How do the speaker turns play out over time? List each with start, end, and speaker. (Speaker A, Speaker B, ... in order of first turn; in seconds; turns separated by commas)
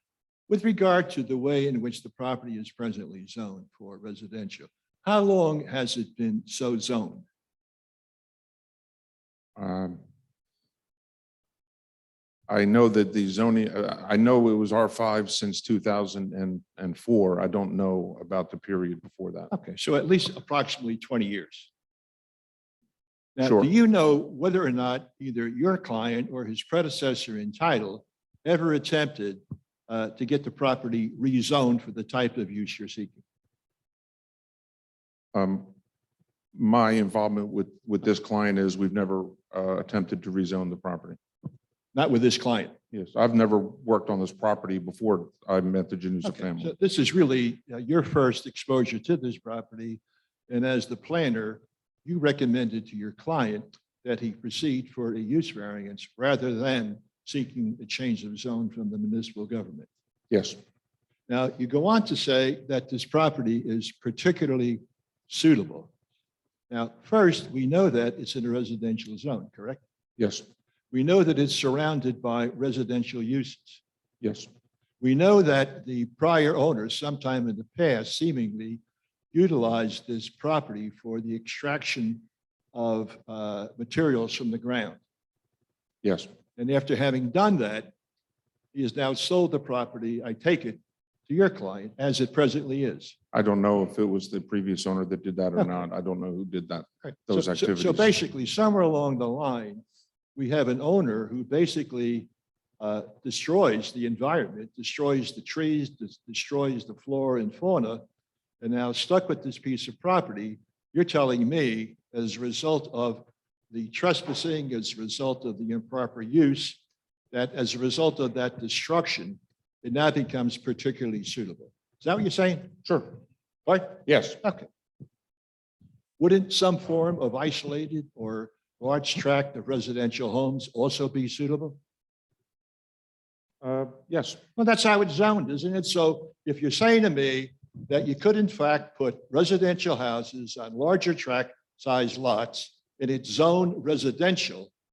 Speaker A: 0.5-7.2, Speaker B: 9.6-10.0, Speaker B: 12.5-19.5, Speaker A: 19.5-21.7, Speaker A: 23.4-33.2, Speaker B: 23.4-23.7, Speaker B: 35.3-35.7, Speaker B: 36.5-41.2, Speaker A: 41.9-42.7, Speaker B: 42.9-46.7, Speaker A: 46.2-59.9, Speaker B: 60.3-60.6, Speaker A: 61.3-65.9, Speaker A: 66.7-69.8, Speaker B: 70.2-70.4, Speaker A: 70.9-73.8, Speaker B: 74.2-74.5, Speaker A: 75.0-78.8, Speaker A: 79.3-85.0, Speaker B: 86.0-86.3, Speaker A: 86.6-87.9, Speaker A: 88.7-93.2, Speaker B: 93.3-98.1, Speaker A: 97.0-99.8, Speaker A: 100.3-102.3, Speaker A: 102.8-108.0, Speaker A: 108.6-116.8, Speaker A: 117.3-122.8, Speaker B: 122.8-123.1, Speaker A: 123.7-124.7, Speaker B: 124.1-124.4, Speaker A: 126.2-131.8, Speaker B: 133.6-134.4, Speaker A: 134.6-144.7